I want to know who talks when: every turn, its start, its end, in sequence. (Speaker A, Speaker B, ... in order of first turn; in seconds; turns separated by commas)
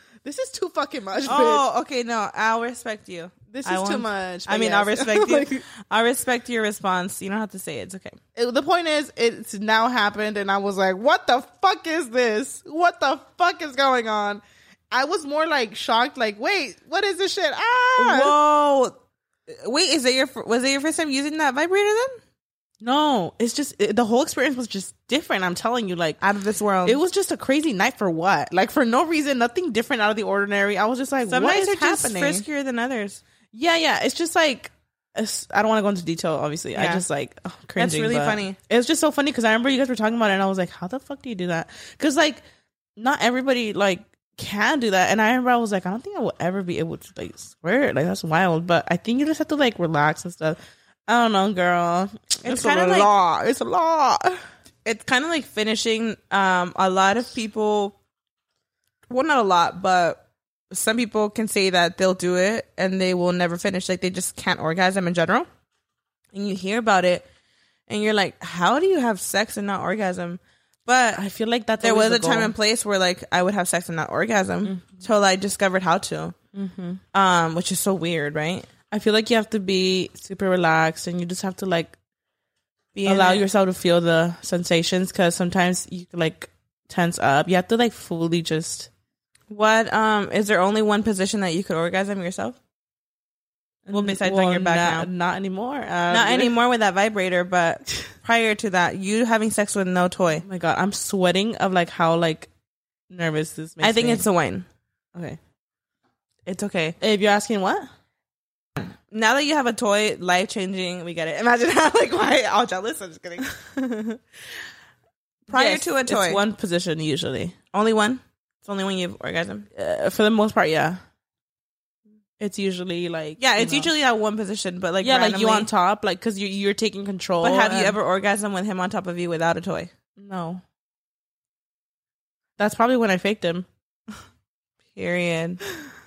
Speaker A: 0.2-1.6, Speaker B: 1.2-8.2, Speaker A: 3.5-5.6, Speaker A: 8.3-18.4, Speaker B: 18.0-18.9, Speaker B: 19.5-22.2, Speaker A: 22.8-26.2, Speaker B: 26.2-27.0, Speaker A: 26.8-32.4, Speaker B: 31.3-33.2, Speaker A: 33.5-42.4, Speaker B: 36.7-37.0, Speaker B: 37.8-38.6, Speaker A: 43.0-54.4, Speaker B: 52.4-53.1, Speaker B: 54.8-57.9, Speaker B: 59.1-65.5, Speaker B: 66.3-67.2, Speaker B: 67.9-71.2, Speaker A: 71.1-72.5, Speaker B: 71.8-76.3, Speaker A: 74.6-75.0, Speaker A: 76.5-77.0, Speaker B: 77.1-78.7, Speaker A: 78.9-81.9, Speaker B: 82.9-83.4, Speaker A: 83.0-88.9, Speaker B: 89.5-92.6, Speaker A: 93.8-96.5, Speaker B: 93.9-95.1, Speaker B: 96.1-100.4, Speaker A: 100.4-102.5, Speaker A: 103.1-104.2, Speaker B: 103.8-104.7, Speaker A: 105.1-105.4, Speaker B: 106.5-107.0, Speaker A: 107.0-107.9, Speaker B: 108.8-113.5, Speaker A: 113.6-114.2, Speaker A: 115.5-117.6, Speaker B: 115.5-116.4, Speaker B: 117.7-119.7, Speaker A: 119.7-121.0, Speaker A: 122.4-123.9, Speaker B: 123.4-125.7, Speaker A: 125.0-128.0, Speaker B: 127.4-129.9, Speaker A: 130.2-130.6, Speaker A: 132.6-133.7, Speaker B: 134.9-135.6